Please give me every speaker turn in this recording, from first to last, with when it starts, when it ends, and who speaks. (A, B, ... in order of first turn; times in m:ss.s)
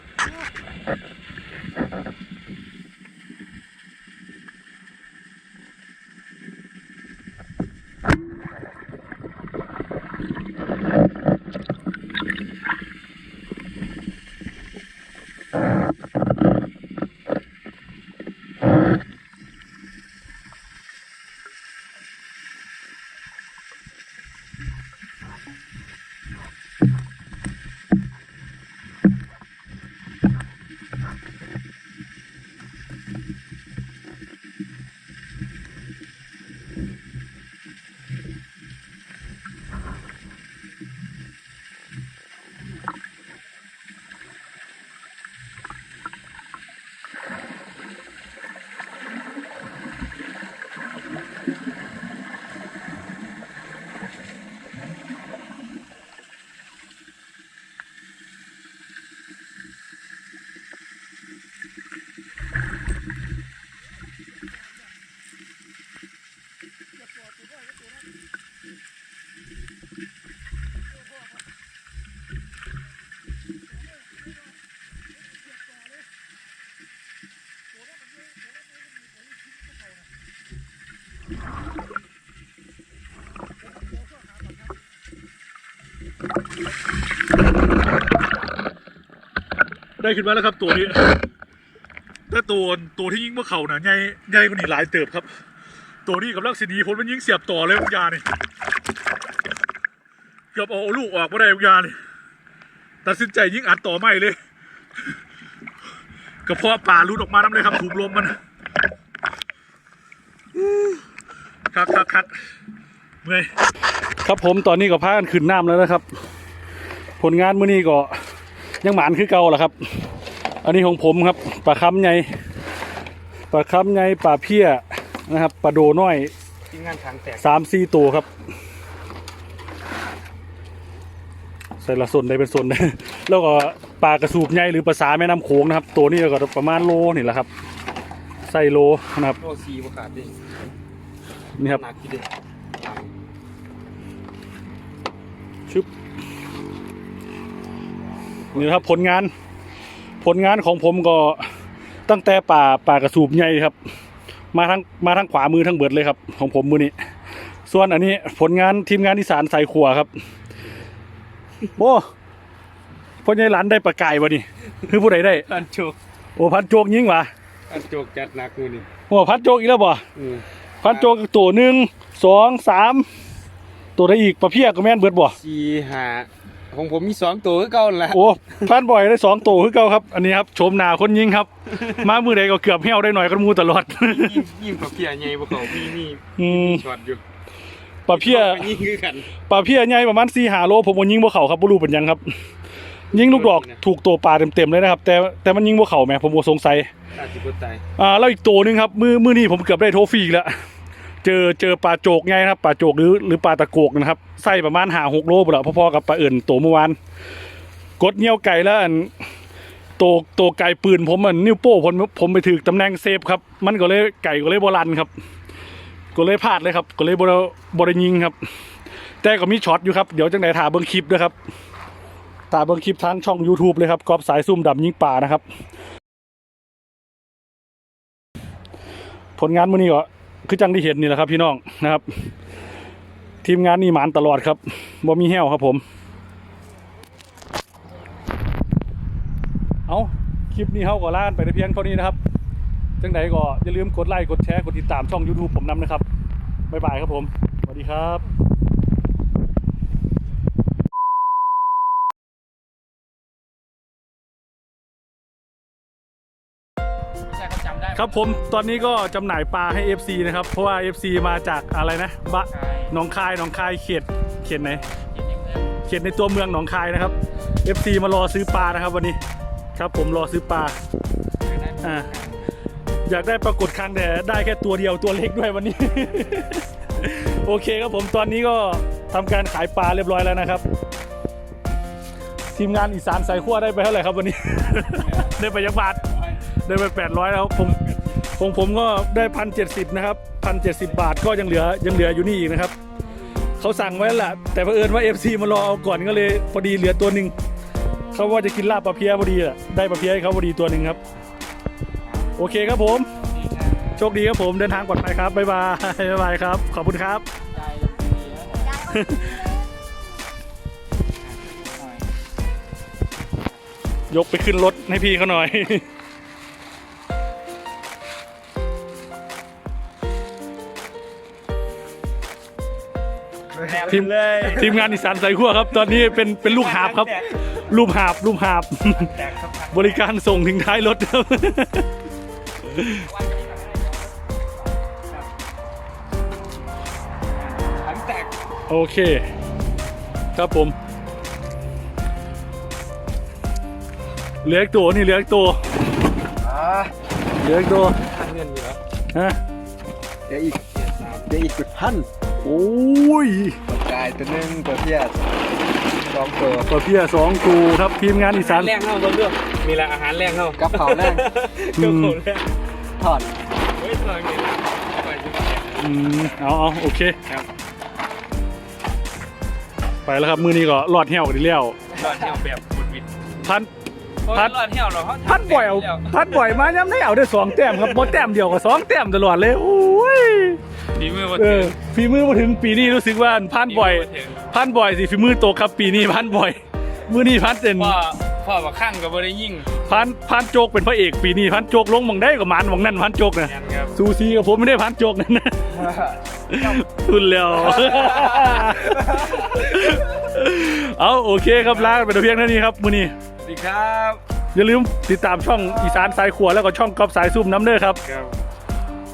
1:30.0-1:31.0 A
1:32.3-1:35.3 A
1:36.0-1:38.2 A
1:40.5-1:42.0 A
1:43.0-1:44.4 A
1:46.4-1:48.4 A
1:51.7-1:52.3 A
1:53.2-1:53.5 A
1:54.2-1:56.0 B
1:57.2-1:58.1 B
1:58.8-1:59.8 B
2:00.6-2:02.2 B
2:03.5-2:06.3 B
2:06.7-2:07.4 C
2:07.4-2:08.3 B
2:11.8-2:17.5 B
2:18.4-2:19.4 B
2:19.4-2:20.4 C
2:21.6-2:21.8 B
2:21.6-2:23.1 C
2:28.4-2:28.9 C
2:28.5-2:29.3 B
2:30.2-2:31.4 B
2:32.1-2:33.8 B
2:34.5-2:36.9 B
2:37.7-2:40.1 B
2:41.8-2:42.0 B
2:43.2-2:45.4 B
2:45.4-2:46.0 C
2:46.4-2:47.3 B
2:47.7-2:48.9 C
2:49.1-2:50.0 B
2:50.2-2:51.1 C
2:50.8-2:53.1 B
2:54.0-2:55.4 B
2:55.4-2:58.2 C
2:58.1-3:04.5 B
3:04.0-3:07.2 C
3:06.4-3:06.8 B
3:08.0-3:08.7 B
3:08.1-3:09.3 C
3:09.5-3:12.2 B
3:13.1-3:16.9 B
3:13.1-3:13.8 C
3:17.1-3:17.8 C
3:18.0-3:20.5 B
3:21.2-3:27.0 B
3:28.0-3:29.1 B
3:30.0-3:35.1 B
3:36.1-3:38.4 B
3:39.2-3:41.3 B
3:42.5-3:45.4 B
3:49.4-3:52.0 B
3:53.4-3:55.8 B
3:59.9-4:02.2 B
4:03.0-4:06.0 B
4:06.7-4:08.2 B
4:17.9-4:24.8 B
4:25.8-4:29.2 B
4:29.7-4:30.7 B
4:31.4-4:32.4 C
4:31.8-4:32.1 B
4:33.1-4:40.6 B
4:42.5-4:46.0 B
4:46.6-4:52.7 B
4:53.6-4:57.3 B
4:58.1-5:01.0 B
5:02.4-5:03.1 B
5:03.4-5:03.9 C
5:03.9-5:07.2 B
5:07.6-5:08.7 C
5:08.8-5:09.5 B
5:11.3-5:12.1 C
5:14.1-5:15.8 B
5:23.6-5:25.1 C
5:23.6-5:24.6 D
5:23.9-5:29.1 B
5:26.4-5:27.5 C
5:29.0-5:30.1 C
5:29.7-5:31.9 B
5:32.6-5:33.0 B
5:33.1-5:34.4 C
5:37.6-5:38.3 C
5:38.7-5:39.2 B
5:40.3-5:40.8 B
5:44.4-5:45.6 B
5:46.4-5:46.9 D
5:47.4-5:48.0 B
5:48.0-5:48.8 C
5:49.1-5:49.4 B
5:50.3-5:50.6 D
5:50.5-5:51.6 C
5:51.3-5:52.0 D
5:52.4-5:53.6 B
5:53.7-5:55.3 D
5:56.1-5:56.7 D
5:56.6-5:58.7 B
5:58.3-6:02.5 C
6:00.6-6:01.2 D
6:01.8-6:02.2 B
6:03.0-6:03.3 D
6:03.7-6:05.9 C
6:05.8-6:07.2 B
6:10.0-6:11.8 B
6:11.9-6:13.1 C
6:13.4-6:13.7 B
6:14.2-6:16.6 C
6:15.2-6:20.6 B
6:20.9-6:21.8 C
6:21.3-6:28.0 B
6:23.4-6:24.4 C
6:27.8-6:29.7 C
6:29.8-6:35.9 B
6:33.4-6:33.9 C
6:36.5-6:43.1 B
6:37.6-6:39.6 C
6:41.6-6:42.0 C
6:43.4-6:44.2 C
6:44.5-6:48.0 B
6:48.0-6:48.4 C